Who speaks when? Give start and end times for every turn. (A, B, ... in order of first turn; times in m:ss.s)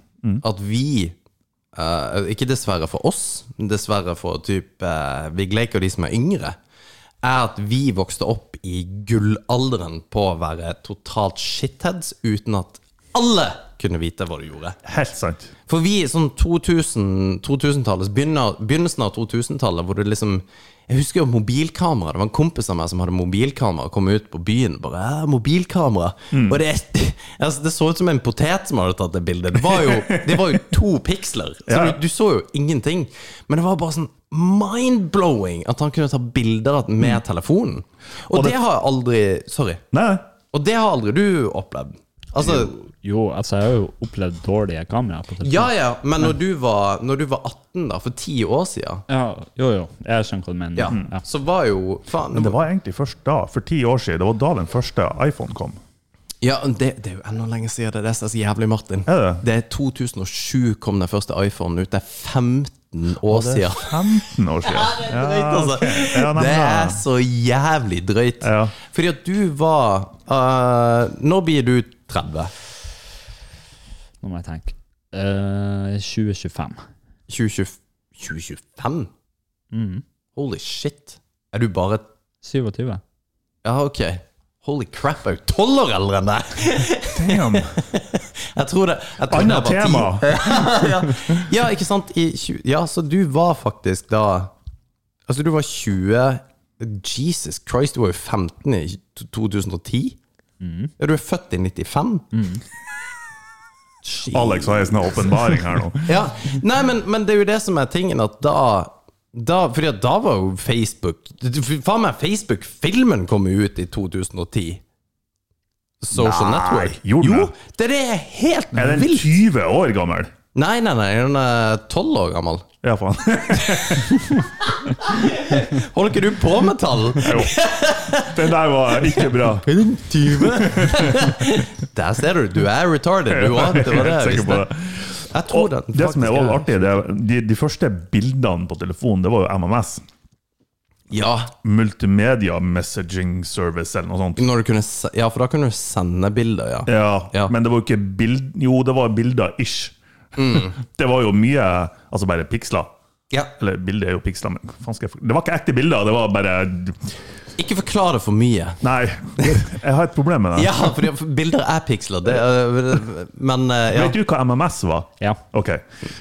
0:00.4-0:01.2 A
0:01.7-0:06.6 A
0:07.2-0:14.8 A
0:14.8-0:15.5 B
0:15.7-0:39.8 A
0:26.3-0:26.6 B
0:29.5-0:30.6 B
0:31.7-0:32.0 B
0:38.3-0:38.6 B
0:39.9-0:40.2 B
0:40.5-0:42.7 A
0:42.8-0:45.7 C
0:45.4-0:49.0 A
0:49.1-0:51.2 C
0:50.7-0:52.6 A
0:52.3-0:55.8 B
0:56.4-1:04.0 A
0:59.1-0:59.4 B
1:03.2-1:07.0 B
1:04.6-1:12.5 A
1:08.4-1:08.7 B
1:14.2-1:16.8 C
1:17.3-1:19.1 A
1:19.7-1:20.0 C
1:20.4-1:22.0 A
1:22.4-1:23.0 C
1:23.6-1:34.5 A
1:27.1-1:27.8 B
1:29.2-1:30.7 B
1:35.3-1:40.2 A
1:40.6-1:40.9 C
1:41.0-1:42.3 A
1:42.3-1:42.6 C
1:44.0-1:45.3 A
1:44.3-1:46.3 B
1:46.0-1:54.8 A
1:56.0-1:59.4 A
1:56.1-1:57.5 B
1:58.7-2:00.3 B
2:00.5-2:02.6 A
2:02.8-2:04.4 B
2:03.7-2:04.0 A
2:04.7-2:08.4 A
2:07.2-2:07.6 B
2:08.1-2:11.5 B
2:09.1-2:14.7 A
2:13.3-2:20.0 B
2:15.3-2:16.9 A
2:21.1-2:21.5 A
2:21.6-2:24.4 B
2:24.4-2:27.5 A
2:26.8-2:29.9 B
2:30.4-2:30.8 A
2:30.5-2:32.9 B
2:33.6-2:37.1 B
2:37.6-2:38.8 A
2:38.8-2:41.0 B
2:39.4-2:39.6 A
2:40.5-2:44.2 A
2:43.9-2:45.8 B